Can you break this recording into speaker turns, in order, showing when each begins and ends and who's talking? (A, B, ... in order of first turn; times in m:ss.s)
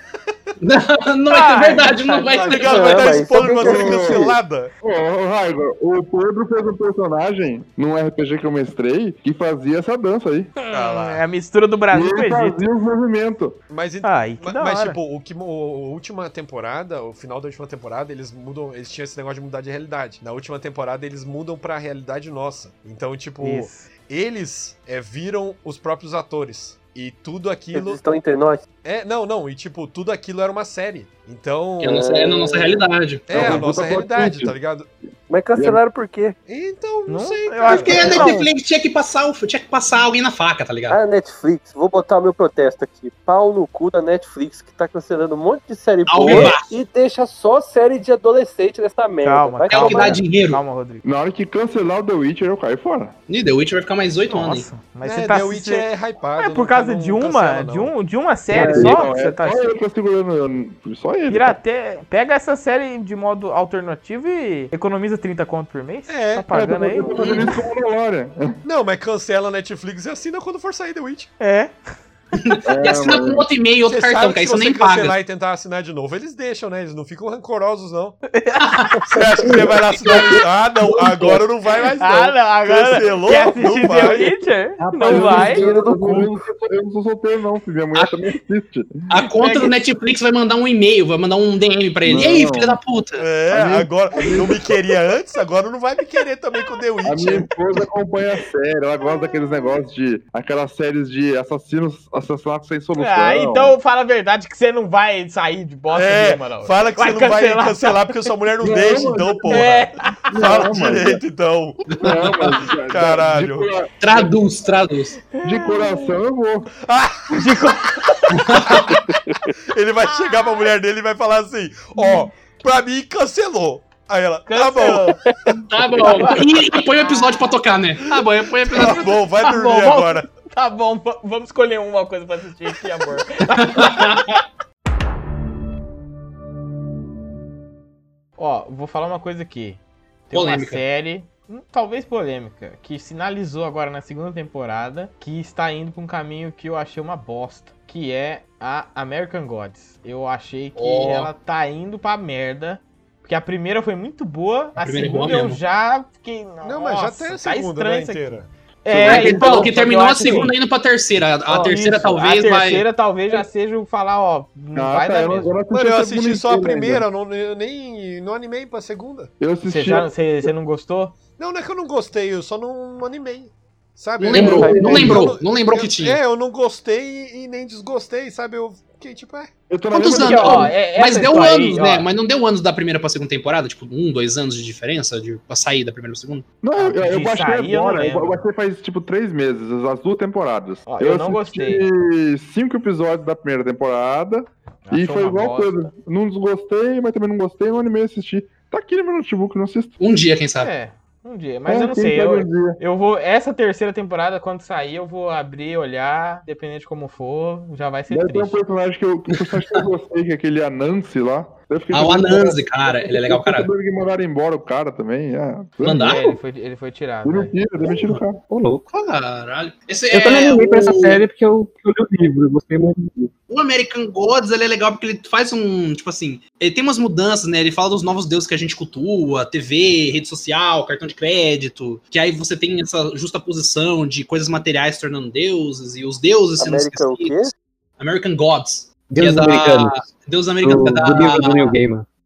0:00.6-0:03.1 A
0:01.3-0:02.4 B
0:02.4-0:04.7 C
0:02.4-0:04.4 D
0:03.6-0:04.3 E
0:04.8-0:10.5 E
0:10.6-0:12.6 B
0:10.8-0:11.1 C
0:11.9-0:13.6 E
0:13.7-0:28.0 C
0:14.0-0:15.0 B
0:23.4-0:23.9 B
0:27.7-0:28.6 D
0:28.8-0:32.0 C
0:31.8-0:33.6 A
0:31.9-0:32.8 D
0:33.3-0:34.9 C
0:33.3-0:34.5 E
0:35.3-0:36.4 D
0:35.5-0:35.8 E
0:36.4-0:38.3 C
0:37.1-0:38.5 B
0:37.7-0:41.0 A
0:40.9-0:50.2 D
0:46.1-0:46.7 A
0:49.2-0:51.0 B
0:49.7-0:50.6 A
0:51.0-0:53.1 E
0:53.3-0:54.7 A
0:54.3-0:59.7 B
0:55.0-0:57.9 C
0:58.5-1:01.6 E
0:58.6-0:59.0 C
1:01.3-1:07.5 B
1:06.1-1:06.5 C
1:06.5-1:08.5 E
1:07.2-1:07.5 A
1:08.6-1:11.3 C
1:11.4-1:11.8 B
1:12.4-1:15.2 A
1:12.6-1:13.4 E
1:13.8-1:18.2 C
1:18.3-1:19.0 B
1:18.6-1:19.0 A
1:19.1-1:24.4 C
1:22.0-1:25.6 B
1:24.8-1:26.4 D
1:25.0-1:28.9 E
1:29.1-1:33.2 A
1:29.3-1:29.8 B
1:32.0-1:32.8 E
1:33.2-1:37.5 C
1:33.5-1:34.7 E
1:37.0-1:43.8 E
1:43.0-1:48.1 B
1:45.9-1:53.7 C
1:48.6-1:49.7 E
1:49.5-1:50.6 B
1:50.3-1:51.2 E
1:52.0-1:54.3 E
1:54.0-1:55.2 A
1:55.3-1:56.2 B
1:55.4-1:56.7 E
1:56.8-1:57.6 C
1:57.3-1:59.0 B
1:58.4-1:58.8 A
1:59.7-2:05.6 C
2:00.1-2:00.6 B
2:04.5-2:05.2 B
2:05.7-2:09.2 A
2:06.1-2:06.4 B
2:08.1-2:10.3 C
2:08.8-2:14.4 B
2:13.6-2:14.4 A
2:18.4-2:40.5 B
2:20.3-2:20.8 A
2:30.8-2:31.3 A
2:34.8-2:35.6 A
2:36.6-2:39.5 C
2:39.0-2:42.8 A
2:39.1-2:39.4 E
2:41.6-2:45.5 B
2:44.7-2:47.0 E
2:45.7-2:49.3 C
2:49.4-2:50.1 E
2:49.7-2:51.1 B
2:51.4-2:59.5 C
2:54.2-2:56.2 A
2:54.3-2:55.2 E
2:54.4-2:55.2 D
2:59.7-3:00.7 E
2:59.9-3:06.4 A
3:00.2-3:02.1 B
3:06.6-3:19.9 E
3:06.8-3:08.4 B
3:10.9-3:11.9 B
3:14.8-3:15.8 B
3:20.0-3:20.7 A
3:20.6-3:28.6 B
3:21.7-3:22.8 E
3:28.1-3:36.4 E
3:31.9-3:33.7 A
3:35.8-3:36.2 A
3:36.0-3:37.6 B
3:37.2-3:38.4 E
3:38.5-3:38.8 F
3:38.9-3:41.2 A
3:40.1-3:43.3 F
3:43.5-4:01.8 A
3:56.6-3:57.5 D
3:59.1-3:59.9 F
4:00.6-4:02.0 F